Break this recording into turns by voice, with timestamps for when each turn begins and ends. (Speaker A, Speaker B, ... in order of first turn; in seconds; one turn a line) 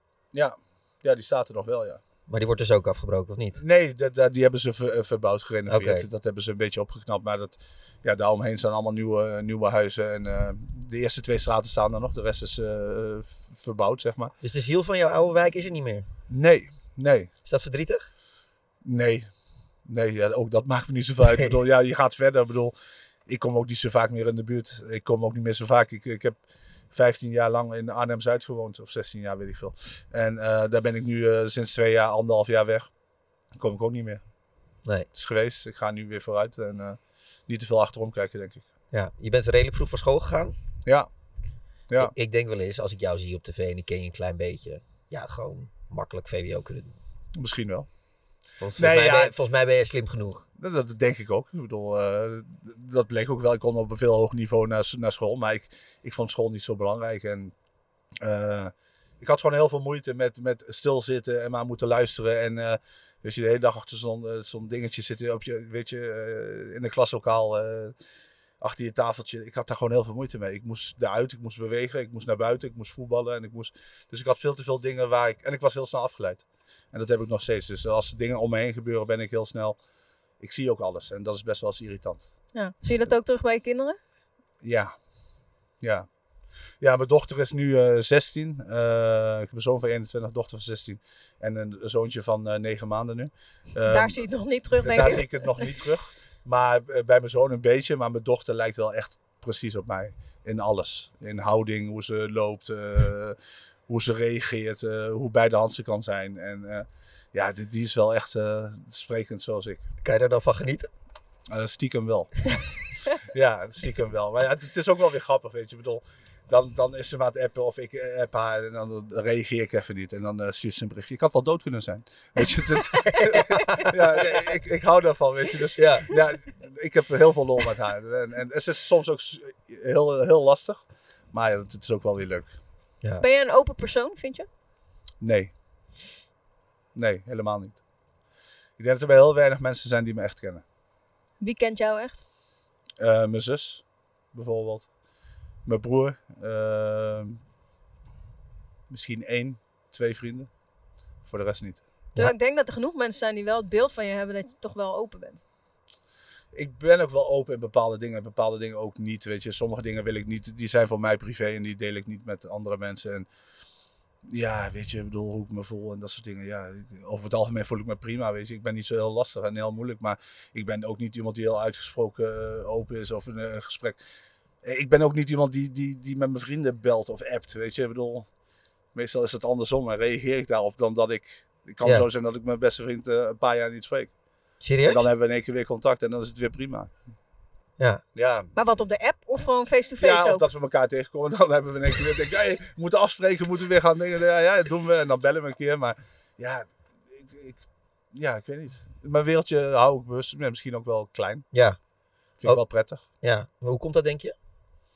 Speaker A: 0.3-2.0
Speaker B: 2.3-3.6
Speaker A: 3.6-14.3
Speaker B: 5.7-6.0
Speaker B: 14.4-16.1
Speaker A: 16.3-17.3
Speaker B: 17.4-18.1
Speaker A: 18.8-19.3
Speaker A: 19.9-22.7
Speaker A: 23.3-26.4
Speaker A: 26.9-32.9
Speaker A: 33.5-34.2
Speaker A: 35.1-38.7
Speaker B: 38.9-40.5
Speaker B: 42.0-46.9
Speaker A: 47.3-47.9
Speaker B: 48.6-50.5
Speaker A: 48.8-49.3
Speaker A: 50.6-57.5
Speaker A: 58.2-67.9
Speaker A: 68.6-79.8
Speaker A: 80.4-82.3
Speaker C: 82.5-84.0
Speaker A: 84.6-84.9
Speaker A: 85.8-86.1
Speaker A: 86.8-94.2
Speaker C: 93.9-95.6
Speaker A: 94.8-103.3
Speaker A: 103.9-109.8
Speaker B: 110.0-110.9
Speaker A: 111.5-112.4
Speaker A: 113.2-130.8
Speaker C: 122.9-123.2
Speaker B: 123.2-123.9
Speaker B: 125.8-126.2
Speaker A: 131.3-132.6
Speaker C: 133.2-134.5
Speaker A: 135.2-135.5
Speaker A: 136.9-137.8
Speaker A: 138.8-140.6
Speaker C: 141.4-142.2
Speaker A: 143.0-144.9
Speaker A: 145.6-147.4
Speaker A: 148.9-150.5
Speaker A: 151.2-151.8
Speaker C: 152.2-155.4
Speaker A: 156.5-163.3
Speaker A: 164.3-174.0
Speaker A: 174.6-178.3
Speaker A: 178.9-184.1
Speaker B: 184.6-185.1
Speaker A: 184.9-186.9
Speaker A: 188.1-188.5
Speaker C: 188.5-190.4
Speaker A: 190.0-197.6
Speaker A: 198.1-201.4
Speaker B: 201.5-201.8
Speaker A: 202.4-203.0
Speaker B: 203.2-204.3